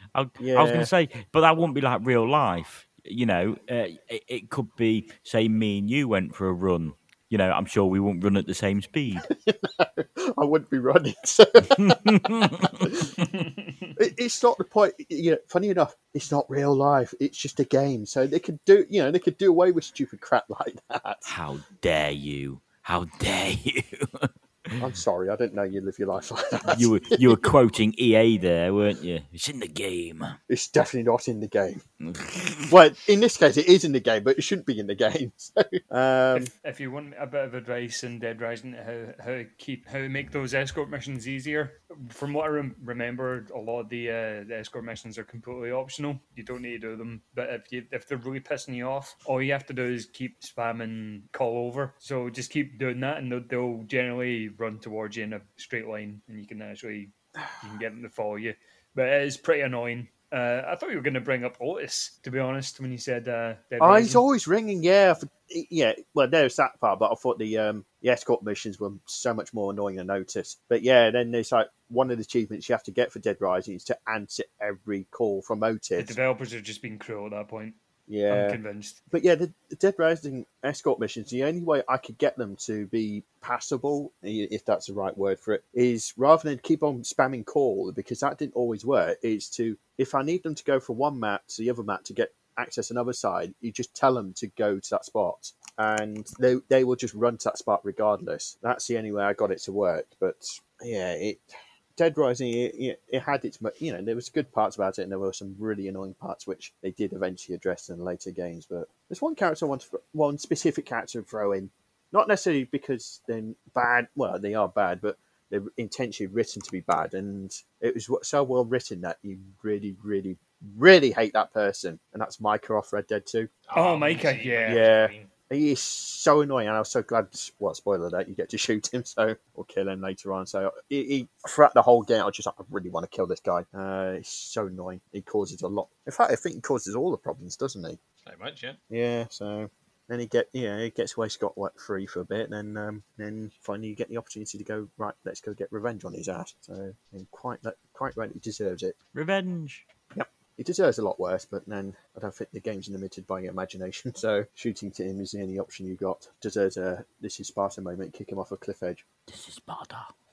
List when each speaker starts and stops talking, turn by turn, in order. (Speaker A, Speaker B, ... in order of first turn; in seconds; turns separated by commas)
Speaker A: 0.1-9.2, Speaker B: 0.4-0.9, Speaker B: 9.3-12.1, Speaker A: 11.8-12.9, Speaker B: 12.8-13.1, Speaker C: 13.2-14.0, Speaker B: 14.0-21.3, Speaker A: 21.2-24.8, Speaker B: 24.8-27.5, Speaker A: 26.6-30.4, Speaker B: 30.5-31.8, Speaker A: 32.0-32.7, Speaker B: 32.7-36.5, Speaker C: 36.3-64.2, Speaker B: 63.8-76.2, Speaker C: 76.0-77.8, Speaker B: 78.1-101.5, Speaker C: 78.3-79.0, Speaker B: 102.0-123.5, Speaker D: 123.7-125.3, Speaker C: 123.7-124.8, Speaker B: 124.7-138.0, Speaker D: 138.2-138.8, Speaker B: 138.9-148.9, Speaker A: 149.1-149.8, Speaker B: 150.1-159.0, Speaker A: 159.3-160.1